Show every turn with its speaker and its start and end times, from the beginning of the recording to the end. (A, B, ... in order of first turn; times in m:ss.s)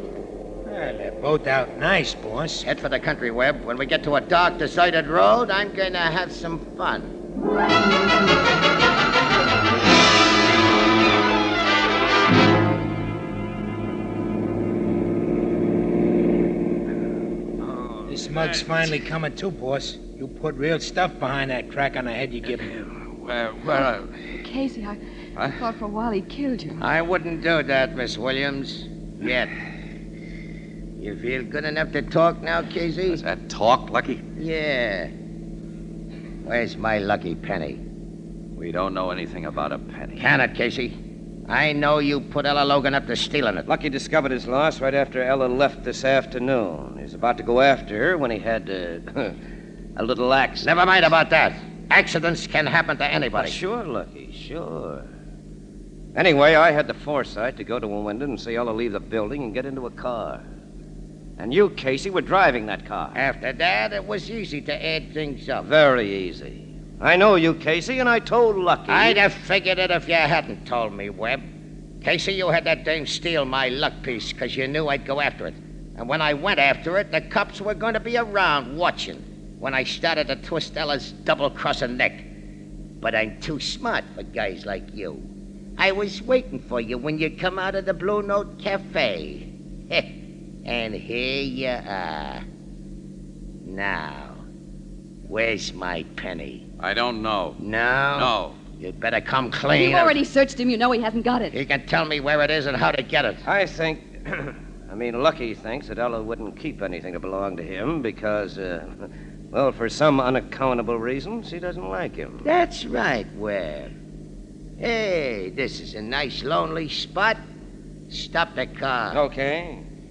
0:00.6-0:02.6 A
0:02.6-0:07.1 B
0:17.7-0:18.0 C
0:18.1-0:22.7 A
0:22.9-0:24.1 D
0:24.4-0:25.0 E
0:25.6-0:26.8 E
0:26.8-0:29.5 B
0:31.0-0:33.2 B
0:33.1-0:34.2 D
0:34.4-0:35.1 B
0:36.4-0:37.8 B
0:38.6-0:40.2 D
0:40.2-0:41.0 B
0:41.5-0:43.7 B
0:43.7-0:49.4 C
0:50.0-0:50.7 C
0:50.6-0:53.6 B
0:53.4-0:55.1 C
0:56.1-1:00.4 C
1:01.4-1:03.2 C
1:03.1-1:05.7 B
1:05.6-1:09.2 C
1:08.9-1:11.4 B
1:12.0-1:22.3 B
1:23.0-1:32.4 B
1:33.6-1:34.4 B
1:35.2-1:36.7 B
1:36.8-1:37.6 D
1:37.6-1:40.2 B
1:38.2-1:38.6 D
1:39.7-1:41.6 E
1:41.5-1:43.4 B
1:43.4-1:52.5 C
1:52.4-1:53.9 B
1:54.8-1:57.4 B
1:58.1-1:59.2 B
1:59.1-1:59.8 C